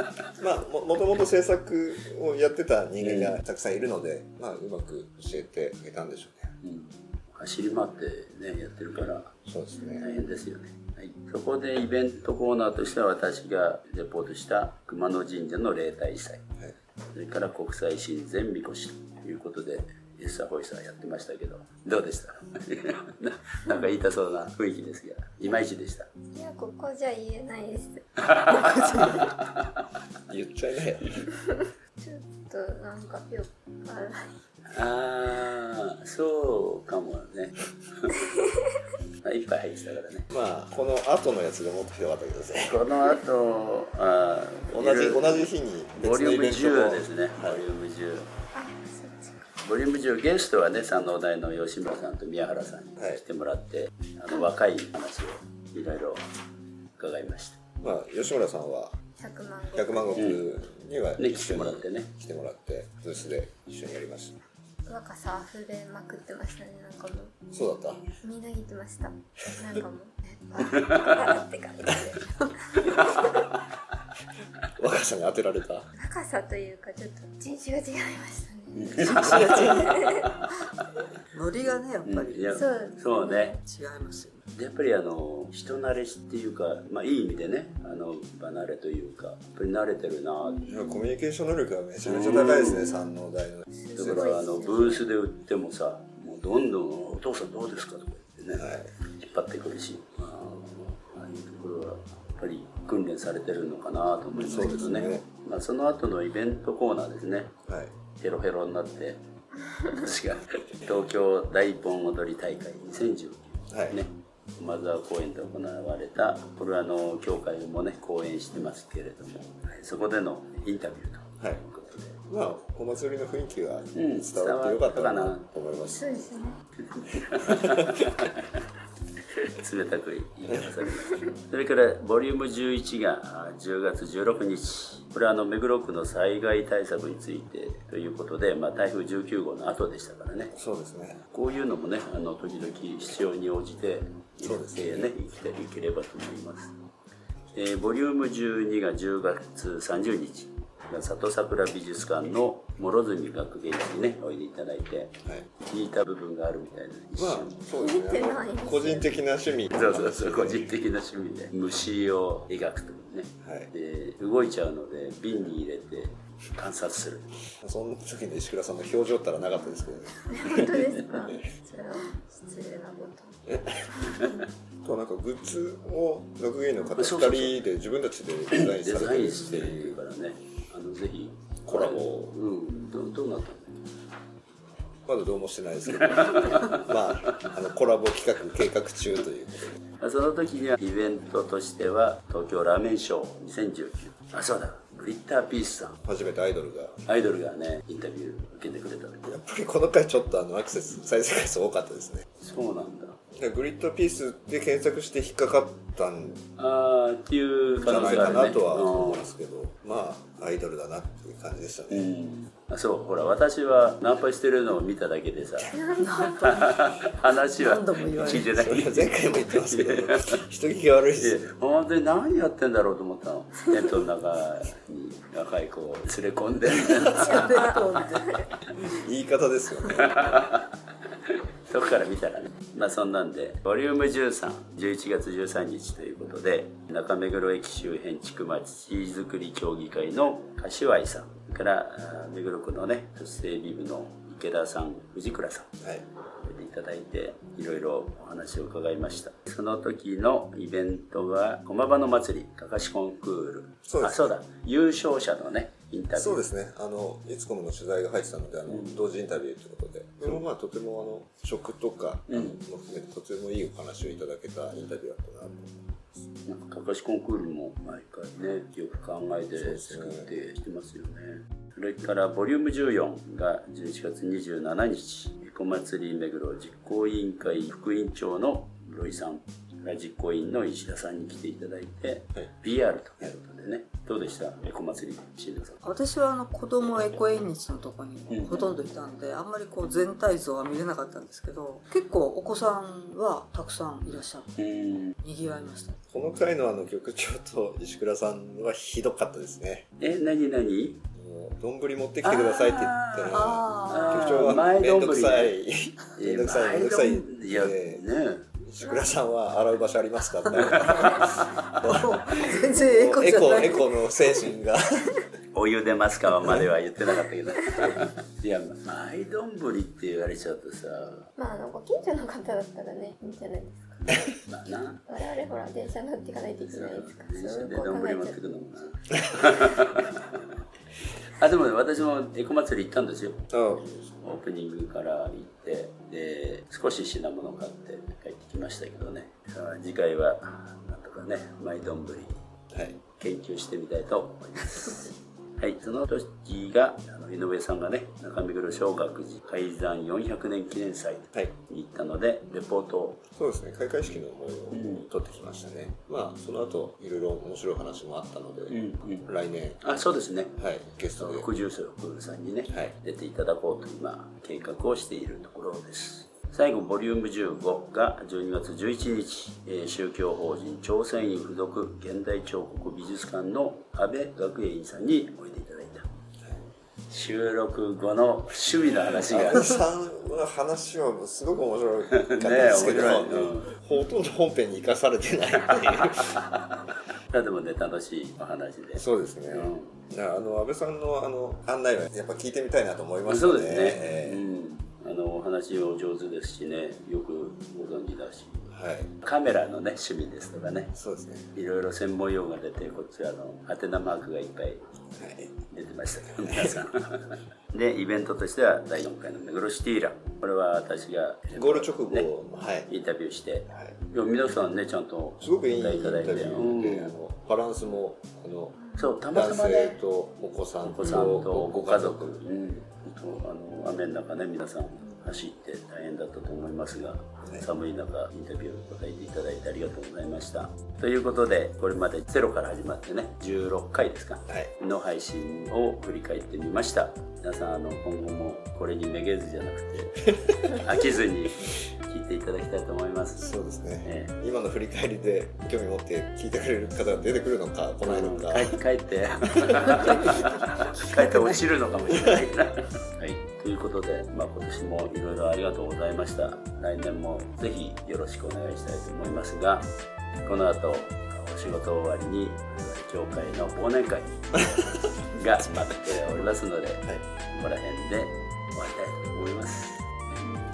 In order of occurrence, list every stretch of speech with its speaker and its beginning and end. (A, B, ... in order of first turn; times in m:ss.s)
0:00.4-0:06.5 A
0:03.0-0:03.4 B
0:06.6-0:09.4 B
0:09.5-0:10.1 A
0:09.8-0:10.2 C
0:10.0-0:16.4 B
0:17.1-0:26.1 B
0:26.3-0:29.0 C
0:28.2-0:29.7 B
0:28.8-0:29.0 D
0:30.3-0:31.2 A
0:32.0-0:34.3 C
0:34.7-0:38.2 B
0:39.2-0:40.3 B
0:40.3-0:42.8 A
0:42.7-0:48.3 B
0:44.7-0:47.6 A
0:48.5-0:49.5 C
0:49.6-0:56.2 B
0:57.0-0:57.6 B
0:57.8-0:59.0 A
0:59.2-1:00.4 C
0:59.7-1:04.4 A
1:01.2-1:02.1 B
1:04.9-1:07.4 C
1:07.5-1:08.0 A
1:08.2-1:13.5 C
1:10.8-1:11.1 B
1:14.8-1:15.9 A
1:16.0-1:20.4 C
1:18.7-1:20.2 B
1:19.0-1:20.2 D
1:21.3-1:22.6 D
1:22.1-1:23.6 B
1:22.5-1:23.6 C
1:23.6-1:24.4 D
1:24.5-1:30.8 B
1:30.6-1:34.3 A
1:32.0-1:32.9 B
1:33.8-1:35.1 C
1:34.0-1:47.6 B
1:38.6-1:38.9 A
1:44.4-1:45.2 A
1:47.7-1:47.9 A
1:48.2-1:49.2 B
1:49.8-2:02.2 B
1:53.7-1:54.0 A
2:02.3-2:06.3 A
2:04.0-2:05.5 B
2:05.9-2:06.6 C
2:06.8-2:08.5 B
2:07.4-2:08.1 A
2:09.3-2:20.6 B
2:20.5-2:21.2 A
2:21.3-2:26.7 B
2:24.4-2:25.1 A
2:27.5-2:37.6 B
2:37.2-2:40.7 A
2:37.8-2:39.1 C
2:39.7-2:47.3 B
2:43.4-2:43.7 A
2:47.6-2:51.4 A
2:50.3-2:53.4 C
2:53.5-2:53.9 A
2:54.0-2:54.3 C
2:54.8-3:00.0 A
2:57.0-2:57.6 B
2:58.5-3:03.8 B
3:01.7-3:02.4 A
3:05.1-3:09.8 A
3:05.9-3:07.4 B
3:10.0-3:16.0 B
3:16.0-3:17.0 A
3:17.1-3:19.2 B
3:19.2-3:22.2 A
3:22.4-3:23.2 B
3:23.3-3:26.5 A
3:26.6-3:29.3 B
3:27.8-3:32.1 A
3:31.9-3:35.8 B
3:35.7-3:36.4 C
3:36.0-3:36.7 D
3:36.4-3:40.4 B
3:37.6-3:38.9 D
3:38.6-3:41.5 A
3:41.2-3:47.4 B
3:47.0-3:48.4 D
3:47.1-3:48.5 C
3:48.8-3:50.5 A
3:50.0-3:50.7 B
3:51.3-4:05.7 B
4:06.4-4:16.4 B
4:13.9-4:14.4 A
4:16.2-4:25.8 A
4:18.7-4:19.0 B
4:22.3-4:22.6 B
4:26.5-4:45.8 B
4:29.6-4:30.3 A
4:45.8-4:54.6 D
4:48.3-4:48.7 B
4:54.6-4:55.2 B
4:55.2-4:56.0 D
4:56.1-4:59.9 A
5:00.0-5:01.0 B
5:01.2-5:08.0 A
5:02.2-5:05.6 B
5:03.3-5:04.6 D
5:06.2-5:08.5 B
5:08.6-5:15.2 A
5:10.6-5:11.6 B
5:10.7-5:11.1 D
5:11.8-5:13.9 D
5:15.5-5:21.3 B
5:21.4-5:24.2 C
5:24.1-5:25.0 B
5:25.1-5:28.4 C
5:26.7-5:30.4 B
5:31.4-5:33.6 B
5:33.5-5:34.1 A
5:34.2-5:42.4 B
5:42.7-5:43.0 A
5:43.2-5:53.2 B
5:53.4-5:59.8 A
5:54.7-5:55.1 B
5:58.7-5:59.3 B
5:59.8-6:00.6 B
6:00.6-6:01.5 A
6:01.2-6:16.1 B
6:17.1-6:19.7 B
6:19.1-6:26.4 A
6:22.2-6:23.8 B
6:25.7-6:26.7 B
6:27.3-6:30.0 B
6:29.0-6:34.4 A
6:33.3-6:38.7 B
6:38.7-6:39.1 A
6:39.2-6:40.9 B
6:40.9-6:41.5 A
6:41.5-6:44.9 B
6:45.2-6:45.5 A
6:45.7-6:52.3 B
6:46.4-6:46.8 A
6:51.6-6:52.9 A
6:52.9-6:57.1 B
6:55.4-7:02.4 A
6:59.0-7:00.0 B
7:00.8-7:23.4 B
7:23.4-7:28.8 A
7:24.0-7:24.3 B
7:28.0-7:39.9 B
7:29.5-7:30.0 A
7:29.9-7:30.6 D
7:31.1-7:31.6 D
7:32.1-7:32.4 A
7:40.4-7:50.1 B
7:44.6-7:45.0 A